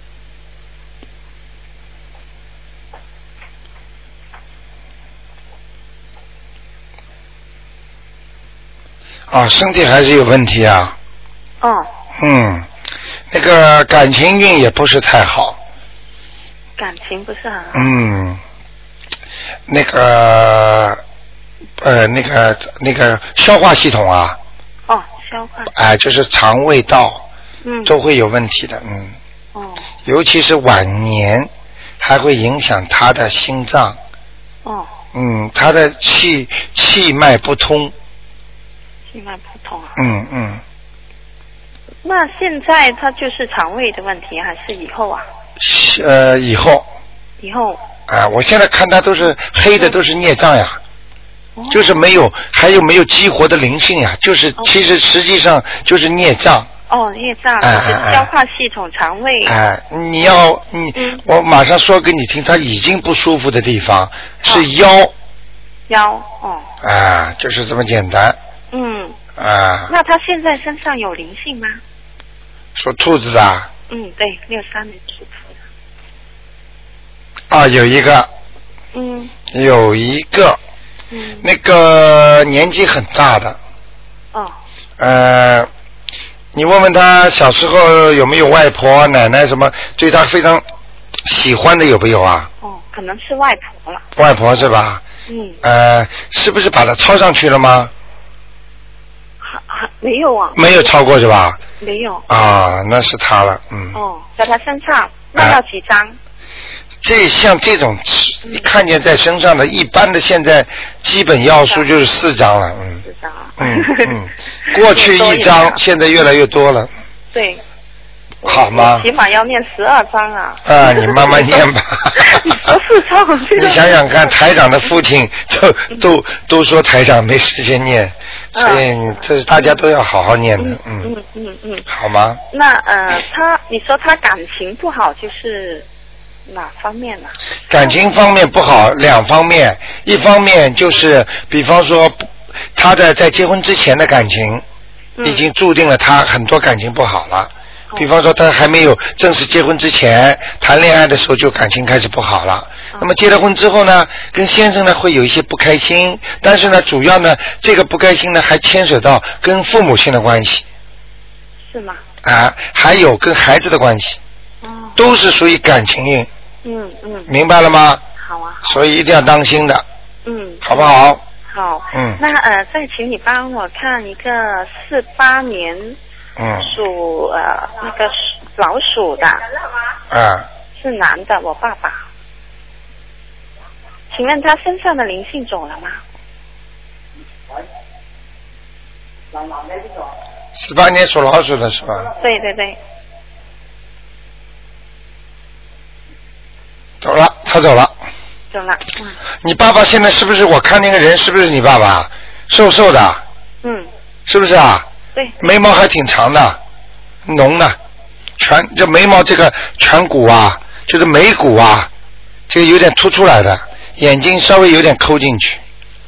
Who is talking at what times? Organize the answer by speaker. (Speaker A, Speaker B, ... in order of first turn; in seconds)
Speaker A: 9.3-10.9, 12.2-12.7, 13.3-15.6, 17.7-18.4, 19.7-21.0, 21.8-24.4, 25.7-27.2, 27.8-29.1, 30.0-31.5, 32.0-34.0, 35.1-37.9, 40.0-40.6, 45.6-46.9, 48.1-50.8, 51.7-56.7, 57.6-58.3, 59.5-65.1, 66.8-68.4, 69.4-69.9, 72.7-73.7, 77.5-78.3, 79.5-80.6, 81.4-83.6, 85.0-85.7, 86.5-90.6, 91.2-92.5, 94.2-95.0, 95.6-97.9, 100.5-101.6, 102.3-104.0, 107.0-113.0, 113.6-116.9, 118.4-119.1, 120.6-122.7, 123.5-131.1, 131.9-132.4, 137.7-144.6, 145.2-160.6, 162.2-164.2, 164.9-166.3, 167.3-168.0, 168.6-169.8, 170.6-171.2, 171.9-172.2, 176.4-176.7, 180.1-180.5, 190.5-192.1, 197.0-197.9, 199.4-203.2, 204.3-204.8, 205.4-206.6, 207.2-207.8, 208.4-211.9, 212.5-215.6
Speaker B: 11.6-11.9, 16.8-17.9, 24.9-25.7, 27.6-27.9, 29.5-29.9, 34.6-34.9, 39.1-40.0, 42.0-45.2, 47.4-47.8, 51.5-52.0, 56.9-59.6, 60.9-61.2, 65.9-66.7, 68.7-69.2, 69.9-71.8, 73.9-75.5, 78.9-79.3, 81.1-81.5, 92.6-94.0, 95.3-95.6, 99.4-101.0, 101.8-102.3, 103.9-106.2, 113.0-114.2, 114.7-115.8, 117.3-117.6, 118.4-124.3, 128.5-129.8, 130.6-131.8, 132.5-135.8, 136.5-138.0, 145.2-145.4, 161.7-162.0, 164.6-165.0, 166.6-167.3, 168.2-168.7, 170.2-170.9, 171.5-176.0, 176.6-179.4, 180.8-182.0, 184.1-186.0, 192.2-192.8, 198.5-199.1, 203.6-203.9